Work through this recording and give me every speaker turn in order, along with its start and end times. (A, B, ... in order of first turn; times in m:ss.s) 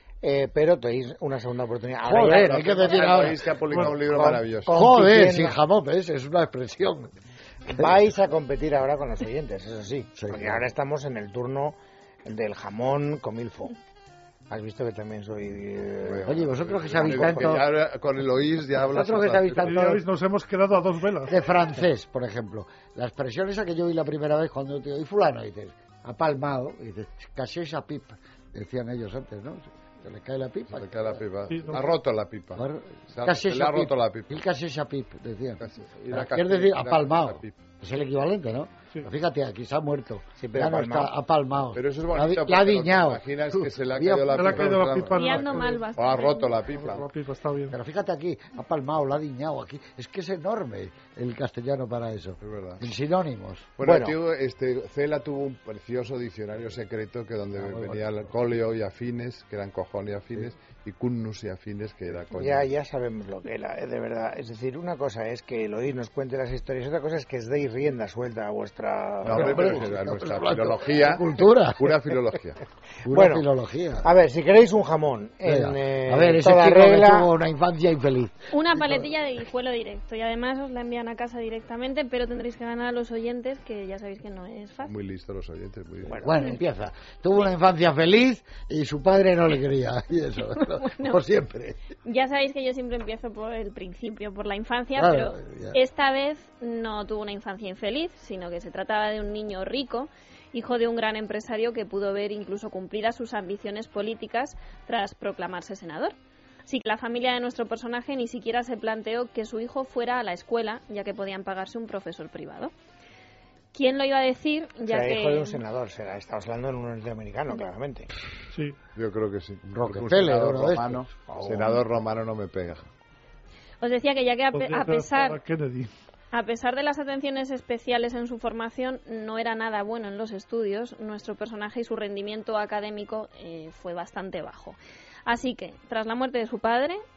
0:00.2-0:05.6 A
0:02.0-0:03.9 B
0:02.4-0:04.7 C
0:03.7-0:04.0 D
0:04.7-0:07.2 B
0:07.7-0:08.0 B
0:07.7-0:13.7 A
0:10.2-0:10.6 B
0:14.5-0:17.6 A
0:16.0-0:20.0 C
0:16.2-0:17.6 B
0:18.8-0:20.0 B
0:19.6-0:21.4 D
0:21.3-0:31.2 B
0:30.7-0:34.4 C
0:31.5-0:31.8 D
0:32.6-0:44.8 B
0:35.6-0:37.6 C
0:40.4-0:41.1 A
0:41.8-0:47.1 C
0:44.3-0:45.9 D
0:45.1-0:46.7 E
0:46.7-0:47.8 D
0:47.7-0:53.7 B
0:52.4-0:52.8 C
0:53.8-1:02.7 C
0:53.8-0:54.2 A
0:57.6-0:58.4 B
1:02.3-1:09.9 A
1:09.2-1:12.6 C
1:09.2-1:11.8 B
1:13.0-1:14.1 B
1:13.1-1:13.5 A
1:14.0-1:17.3 A
1:15.4-1:19.1 B
1:18.5-1:25.0 E
1:24.8-1:26.3 C
1:26.1-1:26.3 A
1:26.1-1:31.9 B
1:30.5-1:31.2 E
1:32.0-1:52.7 E
1:35.0-1:35.8 B
1:53.7-1:55.6 E
1:54.9-1:58.1 A
1:58.5-1:58.8 D
1:59.0-2:02.9 C
1:59.7-2:01.1 B
2:01.3-2:01.8 A
2:03.8-2:05.4 E
2:04.5-2:05.9 D
2:06.3-2:17.0 E